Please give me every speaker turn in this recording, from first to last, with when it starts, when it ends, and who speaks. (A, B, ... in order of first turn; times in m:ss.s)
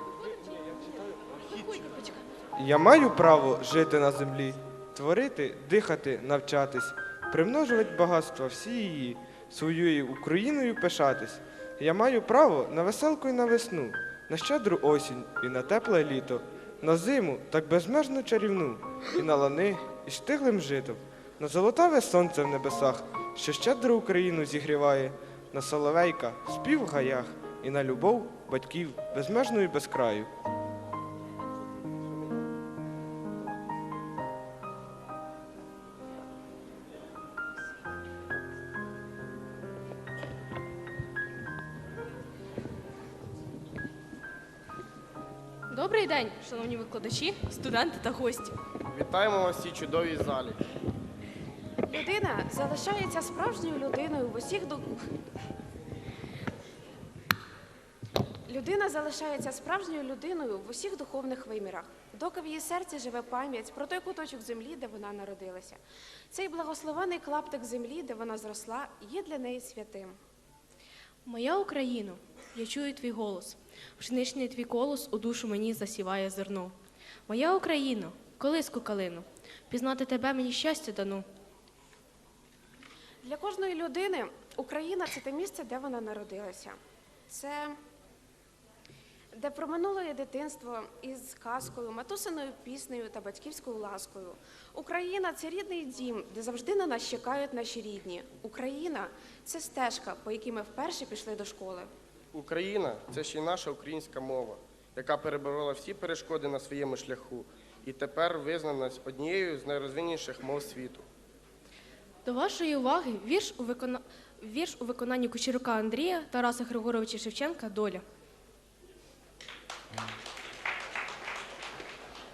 0:00.3-0:02.2 A
0:02.6-0:30.3 B
0:45.7-0:48.6 A
0:48.9-0:50.6 C
0:51.9-0:55.0 D
0:58.5-1:05.8 D
1:06.3-1:10.2 D
1:11.3-1:16.8 A
1:17.3-1:21.2 A
1:23.2-1:26.8 D
1:27.3-1:27.8 D
1:29.3-1:41.9 D
1:42.3-1:51.0 C
1:52.2-1:58.0 A